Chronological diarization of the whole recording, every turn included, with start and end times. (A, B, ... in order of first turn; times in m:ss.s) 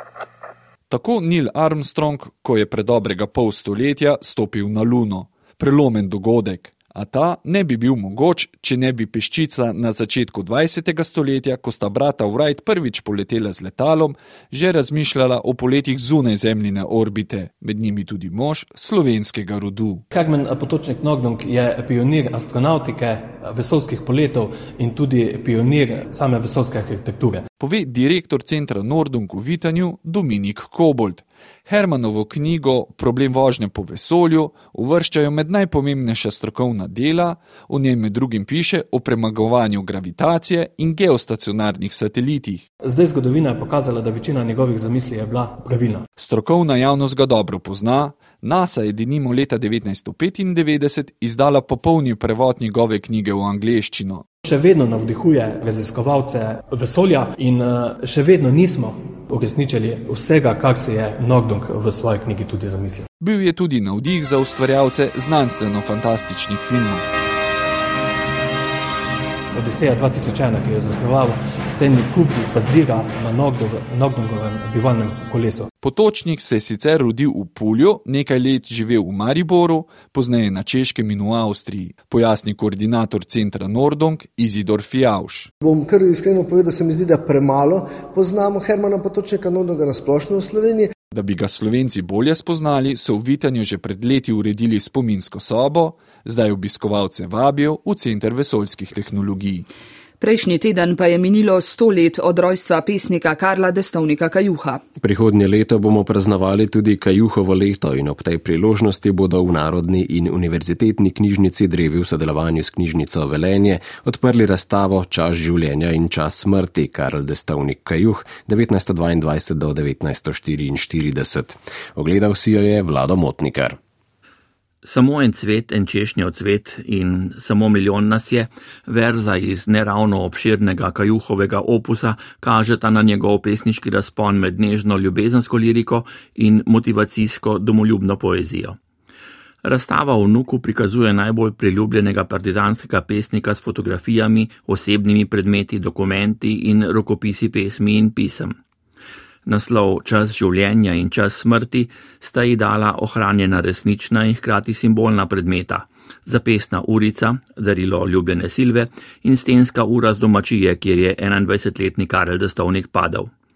0:00.9-0:20.0 A
0:20.1-0:27.4 B
0:27.6-0:42.6 A
0:42.8-0:46.0 B
0:46.2-0:54.2 A
0:54.4-1:03.0 B
1:03.2-1:07.0 A
1:09.5-1:15.7 B
1:15.8-1:25.5 A
1:25.6-1:30.9 C
1:31.1-1:39.6 A
1:40.2-1:44.8 D
1:45.0-2:03.8 E
2:04.8-2:18.8 F
2:19.6-2:28.6 F
2:29.4-2:43.3 F